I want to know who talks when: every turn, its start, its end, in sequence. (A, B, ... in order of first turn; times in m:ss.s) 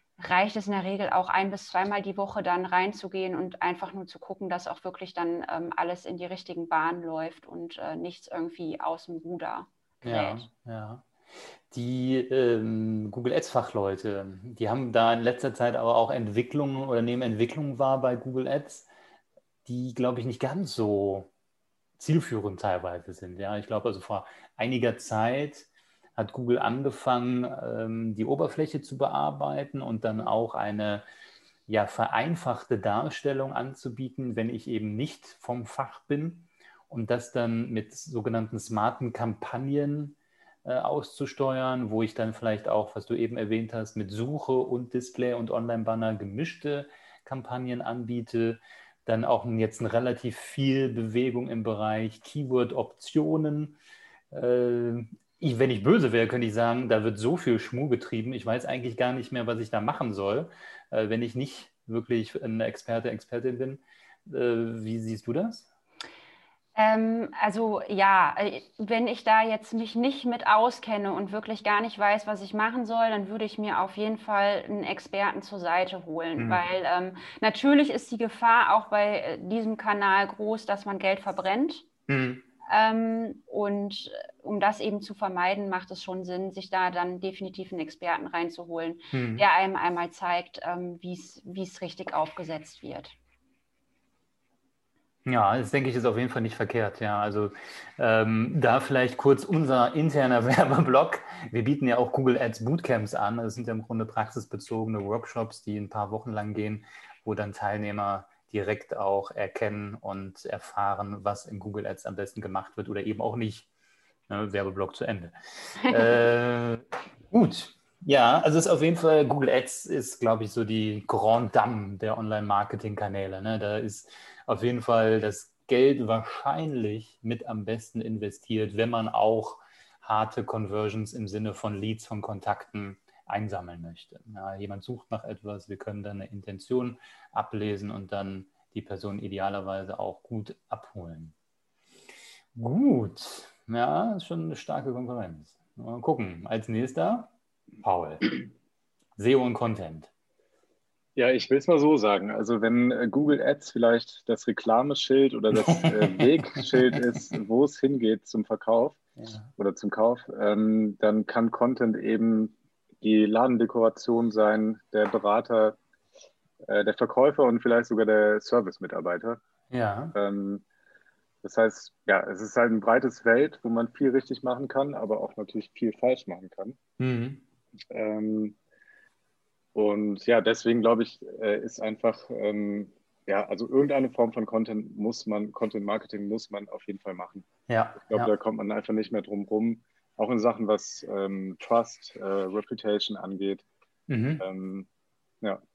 0:00.2-0:10.5 A
0:10.0-0:18.9 B
0:19.6-0:21.3 B
0:22.0-0:31.0 B
0:31.7-0:53.8 B
0:54.3-1:05.7 B
1:06.8-1:21.9 A
1:16.4-1:16.6 B
1:22.1-1:22.4 B
1:22.7-1:33.1 A
1:29.1-1:29.4 B
1:35.2-1:53.7 B
1:54.3-2:21.3 B
2:22.6-2:28.4 B
2:29.2-2:30.1 B
2:31.2-2:39.0 C
2:35.5-2:37.2 B
2:39.2-2:39.5 B
2:39.6-2:45.8 C
2:46.6-2:49.4 C
2:49.7-2:50.2 B
2:50.1-2:50.6 C
2:51.4-2:56.8 C
2:57.0-2:57.4 B
2:57.9-2:58.6 C
2:59.7-3:07.5 C
3:07.7-3:08.3 B
3:08.0-3:13.6 C
3:14.1-3:14.4 B
3:14.4-3:14.9 C